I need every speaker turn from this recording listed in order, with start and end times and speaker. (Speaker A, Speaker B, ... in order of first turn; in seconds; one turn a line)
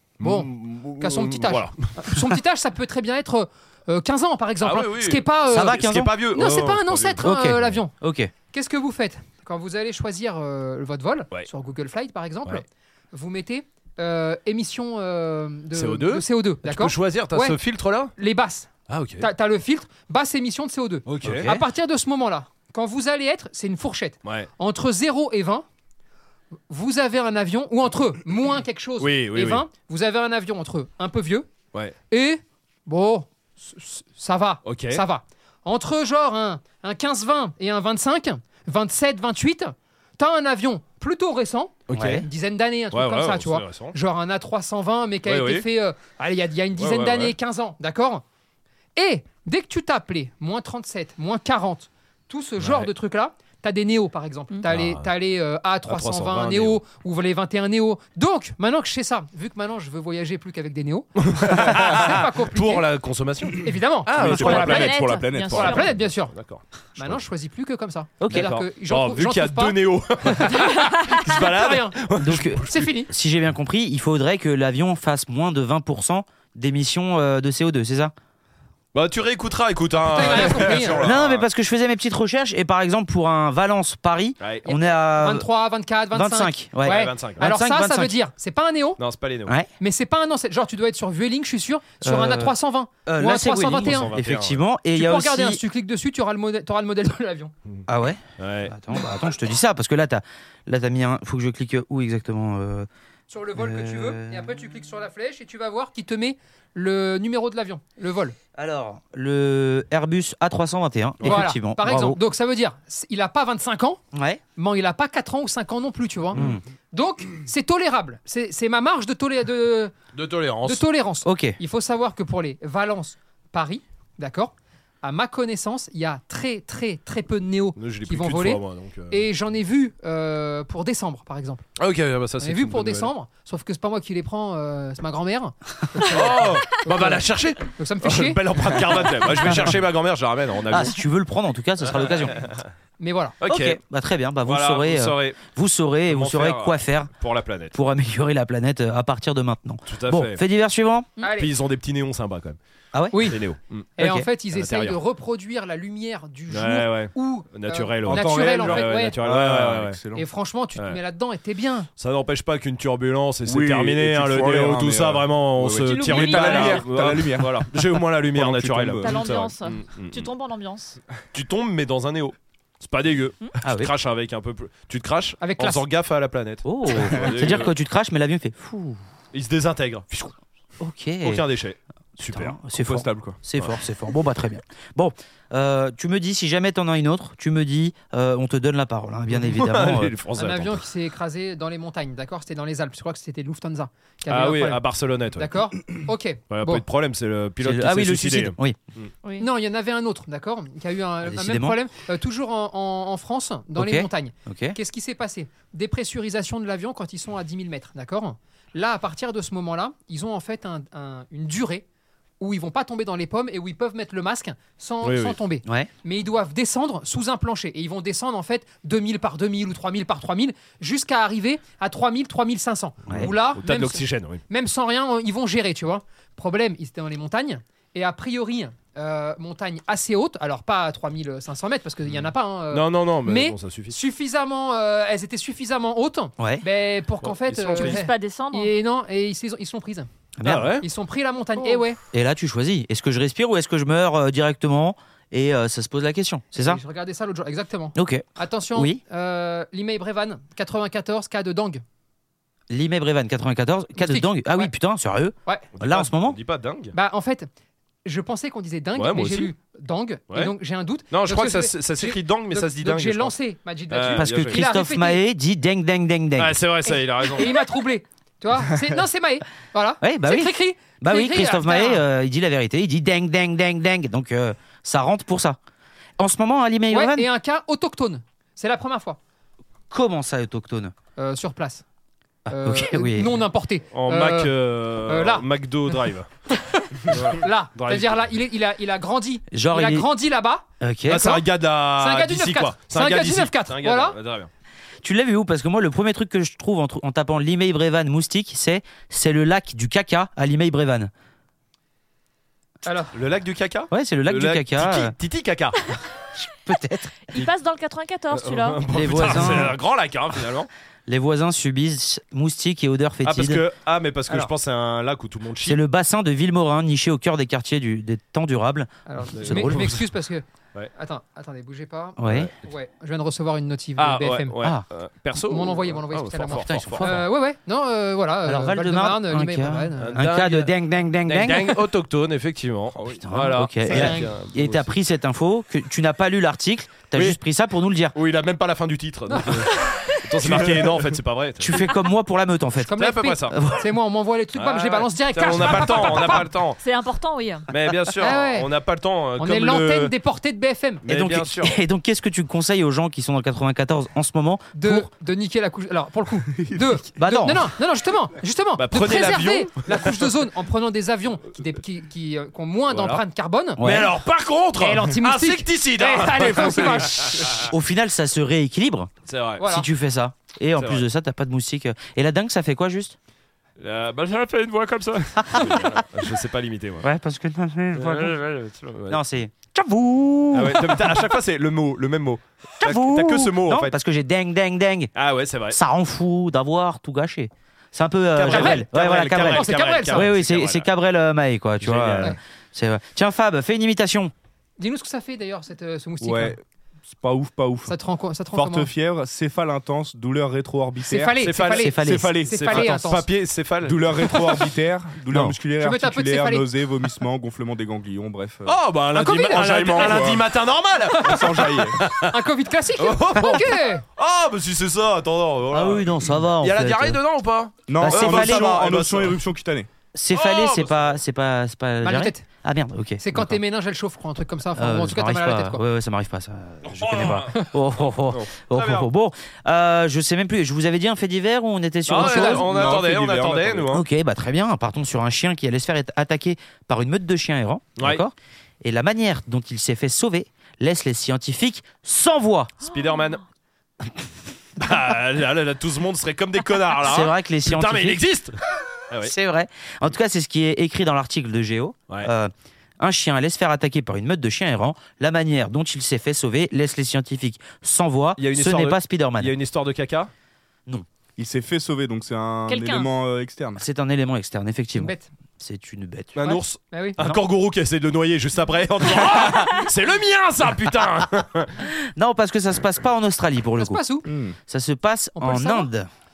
Speaker A: 0.2-2.2
Speaker B: 0.2-7.9
Speaker A: 4.6-7.8
Speaker C: 5.5-6.2
Speaker C: 7.2-8.3
Speaker B: 8.5-17.6
Speaker A: 15.7-18.1
Speaker B: 18.2-25.7
Speaker A: 18.9-19.3
Speaker A: 21.1-21.5
Speaker C: 21.2-21.7
Speaker A: 24.2-24.5
Speaker B: 26.7-31.5
Speaker A: 29.0-29.6
Speaker B: 32.1-48.2
Speaker A: 34.6-35.0
Speaker A: 41.9-42.2
Speaker C: 41.9-42.2
Speaker A: 42.9-44.0
Speaker A: 45.2-45.7
Speaker A: 46.8-47.4
Speaker B: 49.0-62.9
Speaker A: 52.6-52.9
Speaker A: 54.7-55.1
Speaker A: 55.9-56.8
Speaker A: 61.2-65.0
Speaker B: 63.6-64.9
Speaker D: 64.1-65.8
Speaker E: 64.2-65.9
Speaker A: 65.5-67.2
Speaker B: 65.5-66.3
Speaker B: 67.0-72.0
Speaker C: 68.2-68.5
Speaker A: 68.3-72.9
Speaker C: 72.2-78.1
Speaker B: 72.6-73.1
Speaker A: 78.9-81.5
Speaker B: 80.0-81.0
Speaker C: 80.9-85.5
Speaker A: 84.4-84.7
Speaker B: 84.7-89.0
Speaker C: 86.1-88.2
Speaker A: 86.8-87.4
Speaker A: 89.0-89.5
Speaker B: 89.8-94.1
Speaker C: 92.0-92.5
Speaker C: 93.1-95.6
Speaker A: 93.8-94.6
Speaker B: 94.9-97.5
Speaker C: 97.9-102.9
Speaker A: 98.4-98.8
Speaker B: 103.3-108.4
Speaker C: 103.5-104.5
Speaker C: 108.5-112.2
Speaker A: 111.2-111.5
Speaker B: 111.2-114.0
Speaker C: 114.1-114.4
Speaker B: 114.6-119.9
Speaker C: 116.4-116.6
Speaker A: 120.1-120.8
Speaker B: 120.6-131.7
Speaker C: 121.2-121.6
Speaker A: 127.8-129.3
Speaker A: 131.8-133.1
Speaker B: 132.4-139.4
Speaker A: 136.1-141.0
Speaker C: 140.7-142.5
Speaker A: 141.8-142.7
Speaker B: 143.0-143.4
Speaker A: 143.4-143.8
Speaker C: 143.5-147.1
Speaker A: 144.4-145.4
Speaker A: 146.1-147.8
Speaker C: 147.7-151.1
Speaker A: 149.9-150.4
Speaker B: 151.2-151.5
Speaker A: 151.3-152.6
Speaker C: 152.9-153.4
Speaker B: 153.1-153.4
Speaker A: 153.2-153.9
Speaker B: 154.0-159.2
Speaker C: 154.0-154.3
Speaker A: 154.5-155.0
Speaker A: 156.5-160.0
Speaker D: 158.1-160.3
Speaker B: 160.1-161.9
Speaker A: 162.0-170.3
Speaker D: 163.5-169.2
Speaker E: 165.8-166.9
Speaker E: 169.0-171.0
Speaker A: 171.3-177.7
Speaker C: 173.6-173.9
Speaker B: 175.4-175.8
Speaker C: 176.7-179.0
Speaker A: 179.3-180.3
Speaker C: 180.8-181.4
Speaker A: 181.2-182.6
Speaker C: 182.3-190.2
Speaker D: 182.8-183.4
Speaker A: 189.3-190.8
Speaker B: 190.4-194.8
Speaker A: 194.3-195.5
Speaker B: 195.4-196.8
Speaker A: 196.5-199.1
Speaker C: 197.6-198.8
Speaker B: 199.4-211.8
Speaker C: 201.2-201.8
Speaker C: 203.8-204.8
Speaker B: 212.4-240.1
Speaker A: 215.0-215.4
Speaker C: 215.7-215.9
Speaker A: 223.1-224.4
Speaker A: 232.1-234.0
Speaker C: 236.4-236.7
Speaker A: 237.2-238.0
Speaker E: 237.7-238.7
Speaker C: 240.4-240.8
Speaker A: 240.4-240.8
Speaker B: 240.8-242.0
Speaker E: 241.6-241.8
Speaker C: 242.1-246.8
Speaker B: 246.6-251.8
Speaker C: 247.9-249.0
Speaker C: 252.7-256.4
Speaker B: 254.0-254.7
Speaker A: 255.7-256.9
Speaker B: 256.9-257.5
Speaker B: 258.1-265.2
Speaker A: 258.9-259.5
Speaker A: 261.1-263.3
Speaker A: 263.9-264.6
Speaker C: 264.1-266.6
Speaker A: 266.4-267.5
Speaker B: 266.9-272.0
Speaker C: 270.0-275.6
Speaker C: 276.2-277.3
Speaker B: 276.9-279.2
Speaker C: 279.9-280.9
Speaker B: 281.2-281.8
Speaker C: 282.5-283.3
Speaker B: 282.5-286.0
Speaker A: 283.9-286.3
Speaker B: 286.5-294.2
Speaker A: 287.0-288.2
Speaker C: 289.5-290.1
Speaker C: 290.8-291.3
Speaker A: 291.1-294.5
Speaker C: 295.0-301.1
Speaker B: 302.9-303.1
Speaker A: 303.1-305.8
Speaker C: 303.9-305.1
Speaker C: 306.4-307.5
Speaker E: 307.3-308.8
Speaker A: 308.3-310.7
Speaker C: 308.9-309.8
Speaker C: 311.1-313.6
Speaker A: 313.2-315.8
Speaker C: 315.6-320.0
Speaker B: 319.1-324.6
Speaker A: 319.3-320.0
Speaker C: 322.2-322.5
Speaker A: 322.3-322.5
Speaker A: 324.0-327.2
Speaker B: 325.4-330.2
Speaker C: 326.5-327.3
Speaker C: 328.4-331.9
Speaker A: 330.0-330.7
Speaker A: 331.3-334.9
Speaker C: 333.1-338.1
Speaker B: 333.9-334.3
Speaker A: 338.1-341.9
Speaker B: 339.3-340.1
Speaker D: 340.4-340.8
Speaker C: 341.6-343.9
Speaker B: 342.8-346.5
Speaker A: 343.0-343.6
Speaker A: 344.6-346.8
Speaker E: 346.1-347.7
Speaker A: 347.7-350.1
Speaker B: 348.2-348.7
Speaker B: 349.4-351.0
Speaker A: 351.0-351.8
Speaker C: 351.0-355.1
Speaker B: 354.7-363.8
Speaker D: 356.5-356.9
Speaker C: 357.2-357.7
Speaker A: 358.8-360.3
Speaker A: 362.9-363.2
Speaker C: 363.8-364.1
Speaker A: 363.8-367.7
Speaker B: 364.8-367.6
Speaker C: 367.6-373.2
Speaker A: 369.3-369.6
Speaker B: 369.6-369.9
Speaker A: 370.8-371.1
Speaker A: 373.8-377.1
Speaker C: 375.4-375.9
Speaker C: 377.0-378.4
Speaker A: 377.9-379.2
Speaker C: 379.1-381.3
Speaker A: 380.5-384.0
Speaker C: 382.8-385.1
Speaker A: 385.1-385.8
Speaker C: 385.7-394.3
Speaker A: 388.3-390.9
Speaker B: 388.5-388.9
Speaker B: 389.4-390.3
Speaker A: 391.8-392.4
Speaker B: 394.8-396.6
Speaker A: 396.2-396.5
Speaker D: 396.2-396.6
Speaker D: 397.1-397.9
Speaker B: 397.9-398.9
Speaker D: 398.5-403.1
Speaker B: 401.0-403.3
Speaker A: 401.4-404.4
Speaker C: 401.8-402.5
Speaker D: 403.8-408.9
Speaker A: 405.3-405.6
Speaker B: 405.7-406.7
Speaker A: 408.6-412.4
Speaker B: 409.1-410.3
Speaker D: 409.5-410.5
Speaker B: 411.2-414.0
Speaker D: 411.2-412.1
Speaker A: 413.0-419.4
Speaker C: 415.7-417.2
Speaker D: 417.9-419.9
Speaker C: 418.0-418.8
Speaker C: 420.1-423.6
Speaker A: 420.3-421.2
Speaker B: 422.0-422.5
Speaker B: 423.2-425.8
Speaker C: 424.8-432.9
Speaker A: 426.8-427.6
Speaker A: 428.3-429.1
Speaker A: 432.1-434.0
Speaker B: 432.2-432.7
Speaker D: 432.6-433.9
Speaker C: 433.9-442.7
Speaker A: 438.0-438.2
Speaker A: 442.8-443.4
Speaker A: 444.8-448.6
Speaker C: 447.0-448.2
Speaker C: 449.2-459.5
Speaker A: 458.4-460.3
Speaker D: 461.4-463.8
Speaker E: 462.7-463.1
Speaker C: 463.8-466.4
Speaker B: 465.0-465.3
Speaker A: 466.4-471.7
Speaker B: 466.4-467.2
Speaker C: 472.0-474.0
Speaker B: 473.8-474.3
Speaker D: 474.3-474.6
Speaker C: 474.7-476.1
Speaker B: 475.4-475.9